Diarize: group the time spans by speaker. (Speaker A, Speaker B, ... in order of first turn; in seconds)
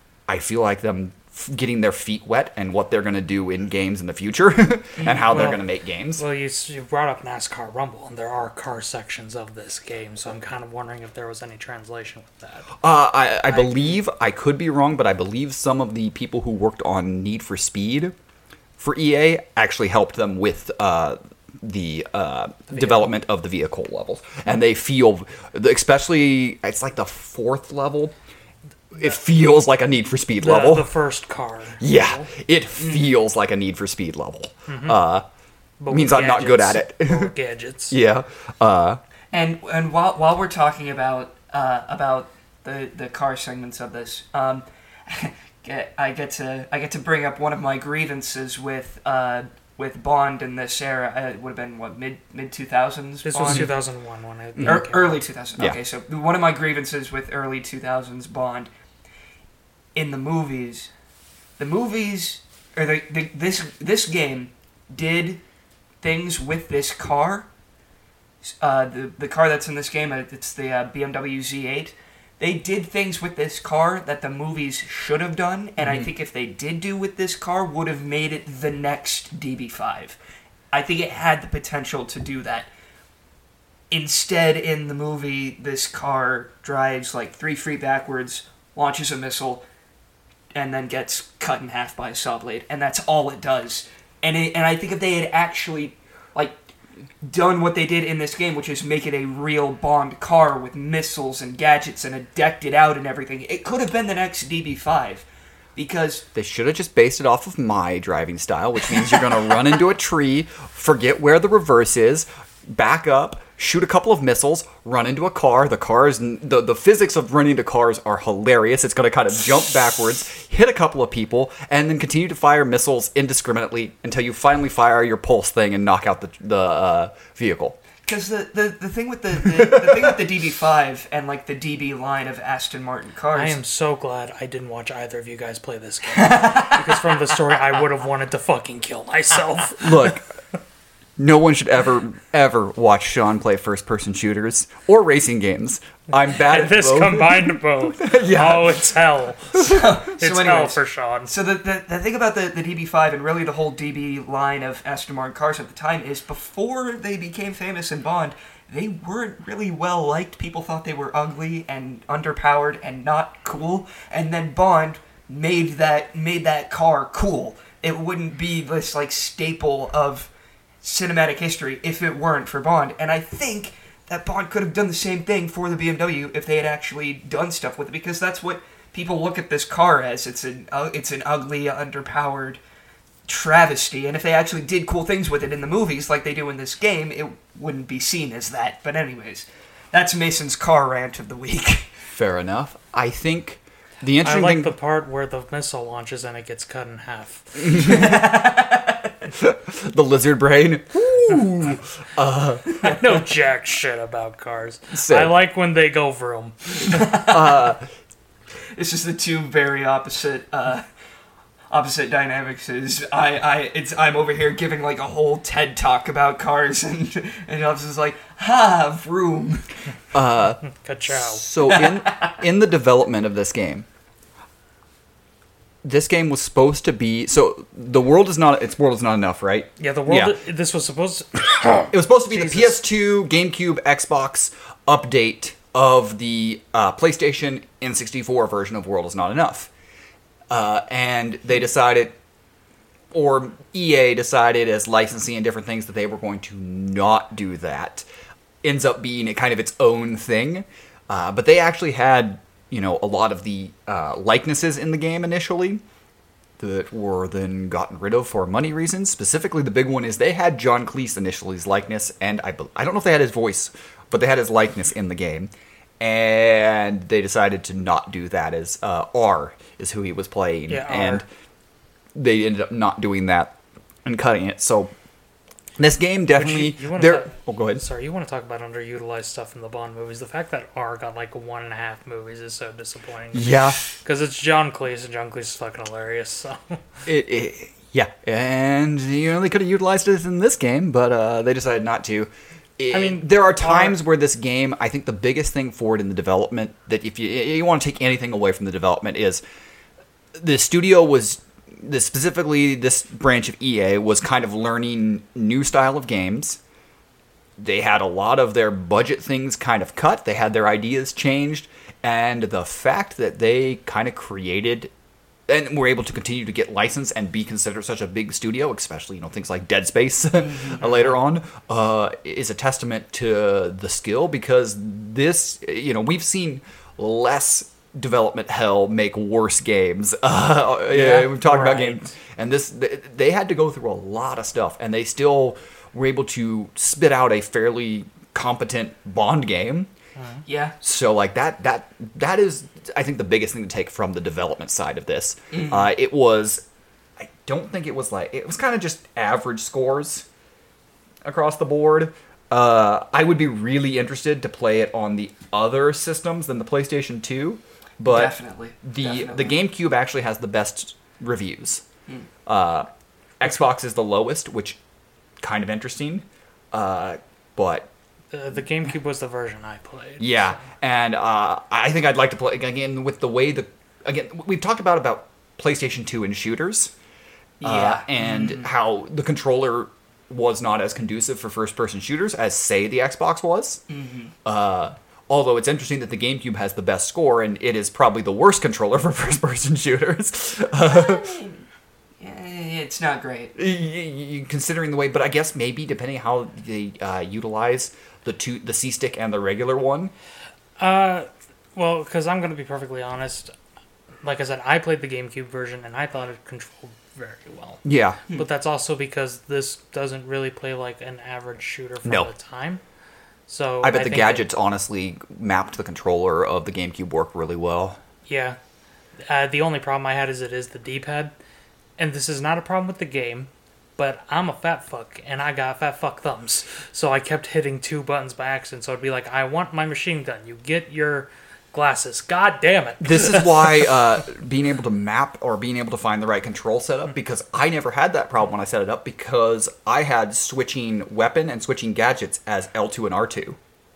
Speaker A: 0.3-6.2, 12.8-18.1, 18.8-28.1, 28.9-30.9, 31.8-35.2, 35.9-37.3, 37.9-39.0, 54.6-54.8, 75.8-76.1, 106.3-127.8, 129.6-130.1, 139.7-140.3, 141.2-148.8, 192.1-194.7, 197.6-198.3, 199.3-202.7, 204.9-205.3, 207.3-207.8, 220.1-223.8, 225.8-230.3, 231.9-239.7, 240.5-242.2, 243.1-248.0, 248.6-255.8, 256.6-271.2, 272.1-274.9, 275.8-277.8, 283.3-283.8, 287.1-299.4, 300.4-306.6, 307.6-314.9, 315.5-339.9, 340.8-346.6, 347.2-350.2, 351.2-361.8, 362.4-362.9, 363.4-364.8, 365.4-367.9, 370.2-376.9, 377.6-383.8, 384.4-391.4, 393.6-400.1, 407.8-408.2, 412.0-412.3, 413.8-418.0, 433.0-443.6
Speaker B: 5.0-5.5, 32.8-33.1, 39.3-53.7, 54.6-58.7, 59.9-60.9, 61.6-65.4, 66.0-67.5, 68.4-80.2, 80.7-82.7, 83.9-89.6, 90.5-96.6, 97.2-106.2, 128.0-133.6, 136.2-137.0, 149.6-170.3, 170.8-182.6, 183.3-191.9, 197.7-199.3, 206.9-207.6, 208.7-210.8, 211.7-219.7, 221.7-222.3, 293.6-293.9, 320.3-321.1, 330.9-331.3, 340.4-340.7, 345.5-345.9, 358.1-359.5, 377.6-378.7, 383.9-384.3, 390.7-391.6, 392.2-393.5
Speaker C: 5.3-5.6, 6.2-12.7, 13.5-13.9, 30.4-32.3, 34.7-35.0, 35.8-38.0, 53.2-55.2, 133.3-140.2, 146.3-151.3, 194.2-197.9, 202.8-207.0, 220.7-221.4, 229.8-232.8, 270.7-271.2, 276.3-286.8, 292.9-293.3, 331.4-332.1, 368.3-370.6, 400.8-403.5, 404.2-412.8, 413.5-414.4, 418.2-418.6, 419.3-421.3, 422.0-433.9